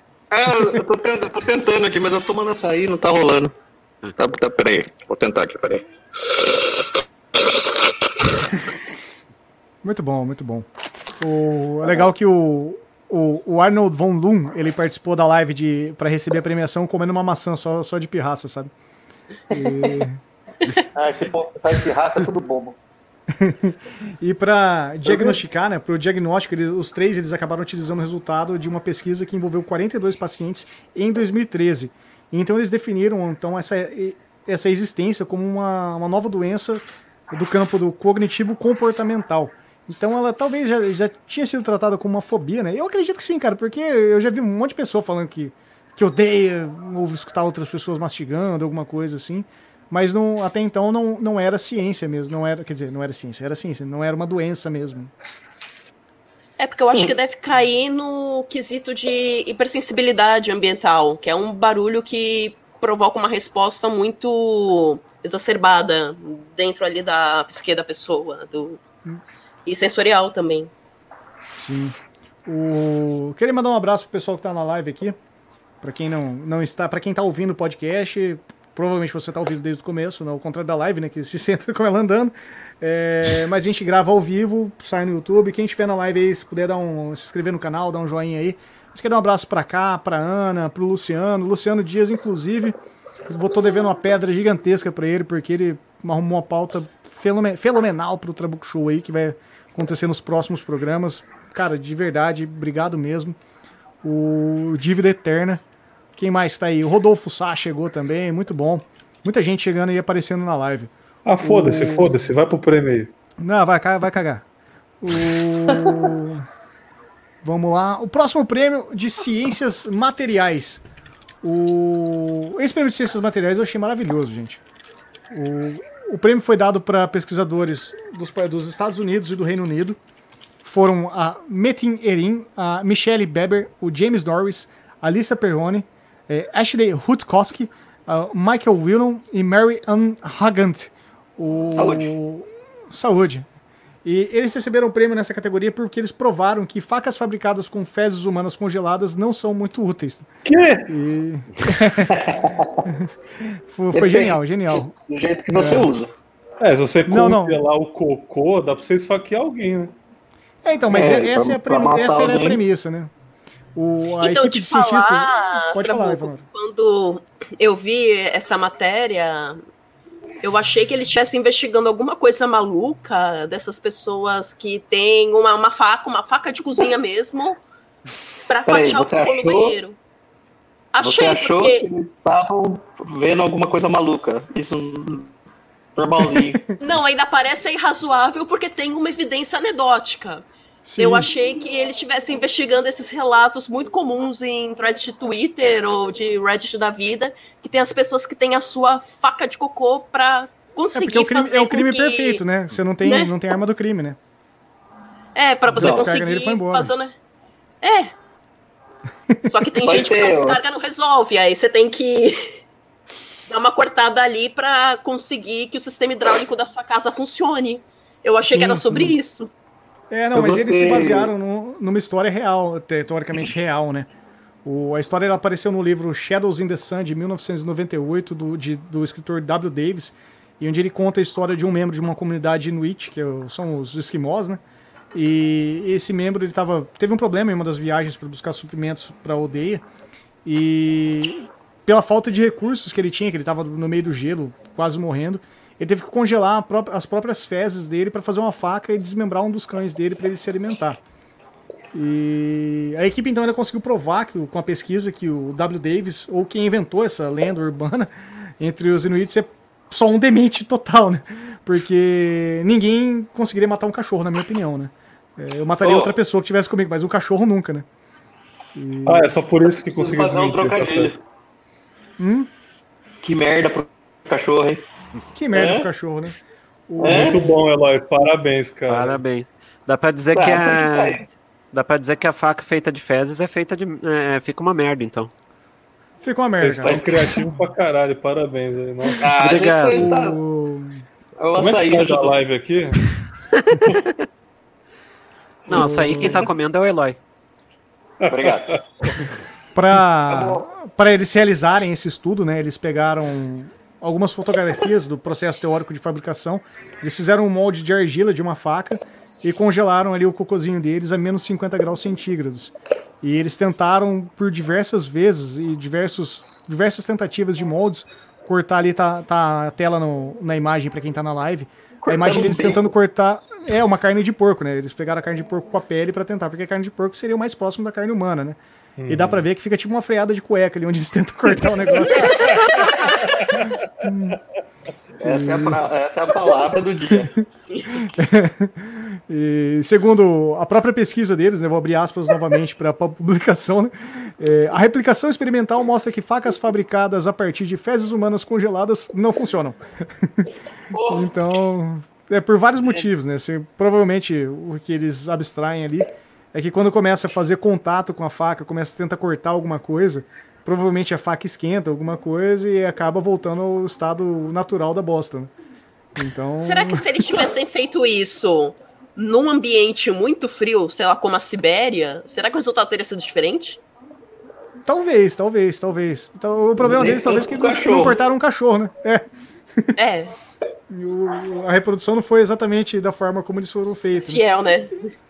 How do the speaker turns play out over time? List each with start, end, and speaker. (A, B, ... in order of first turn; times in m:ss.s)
0:00.3-0:03.5 A
0:00.5-0:00.8 B
0:04.2-0:06.7 A
0:09.8-0:10.7 B
0:11.2-0:18.7 B
0:19.5-0:20.0 A
0:19.5-0:20.2 B
0:20.9-0:22.8 A
0:23.3-0:55.1 B
0:25.1-0:25.4 A
0:56.6-1:08.8 C
1:09.6-1:10.7 C
1:11.6-1:15.2 B
1:15.8-1:32.8 B
1:33.3-1:43.4 B
1:44.0-1:45.6 B
1:46.2-1:50.9 B
1:51.2-1:53.1 D
1:51.4-1:52.1 B
1:53.4-1:54.4 B
1:55.0-1:56.5 B
1:57.4-2:00.8 B
2:01.4-2:04.6 B
2:05.3-2:10.0 B
2:10.6-2:23.4 B
2:21.6-2:22.1 A
2:24.0-2:30.3 B
2:30.4-2:30.9 D
2:30.9-2:32.2 B
2:32.0-2:32.9 A
2:32.8-2:34.9 B
2:33.9-2:36.1 A
2:35.5-2:35.9 B
2:36.6-2:39.9 D
2:37.1-2:37.6 B
2:40.6-2:43.1 B
2:40.9-2:42.6 A
2:43.7-2:46.4 B
2:44.2-2:49.6 C
2:50.4-2:57.6 C
2:58.5-3:00.0 C
2:58.7-2:59.8 A
3:00.9-3:01.9 C
3:01.0-3:05.3 A
3:06.0-3:06.6 A
3:06.2-3:06.6 B
3:06.8-3:10.4 C
3:10.8-3:11.3 B
3:11.0-3:22.4 C
3:20.9-3:24.2 B
3:23.0-3:23.3 C
3:25.3-3:27.1 C
3:25.7-3:26.9 B
3:25.7-3:26.2 A
3:27.8-3:28.1 C
3:29.4-3:32.5 C
3:29.8-3:30.6 A
3:33.5-3:39.5 C
3:38.5-3:39.2 B
3:40.1-3:44.1 B
3:40.3-3:41.3 A
3:44.6-3:54.6 B
3:55.1-3:59.8 B
4:00.4-4:11.0 B
4:11.9-4:27.8 B
4:25.8-4:26.2 A
4:28.7-4:29.3 B
4:29.0-4:31.2 D
4:29.8-4:31.2 A
4:32.2-4:32.5 B
4:33.2-4:34.8 A
4:35.3-4:36.4 B
4:35.5-4:35.9 A
4:36.9-4:37.5 B
4:37.0-4:37.4 A
4:37.0-4:39.2 D
4:38.9-4:41.2 E
4:40.3-4:41.3 A
4:41.7-4:45.3 E
4:46.2-4:47.2 B
4:46.6-4:49.3 D
4:46.8-4:47.4 A
4:49.2-4:50.4 A
4:49.3-4:50.1 E
4:49.7-4:51.0 B
4:51.4-4:52.4 A
4:51.6-4:53.0 D
4:55.7-4:57.2 E
4:55.7-4:56.5 B
4:55.8-4:56.3 A
4:58.2-4:59.2 D
4:58.3-4:58.7 A
4:59.7-5:32.6 B
5:00.3-5:00.6 A
5:22.0-5:22.9 A
5:29.0-5:29.4 D
5:32.2-5:33.8 D
5:34.0-5:34.4 B
5:35.2-5:37.3 A
5:35.2-5:35.8 B
5:37.2-5:50.5 B
5:37.7-5:38.0 C
5:50.9-5:51.3 A
5:51.1-6:05.5 B
6:06.2-6:07.0 B
6:06.6-6:13.8 C
6:14.8-6:19.2 B
6:16.8-6:18.2 A
6:20.0-6:20.3 C
6:20.9-6:24.4 B
6:24.3-6:25.1 C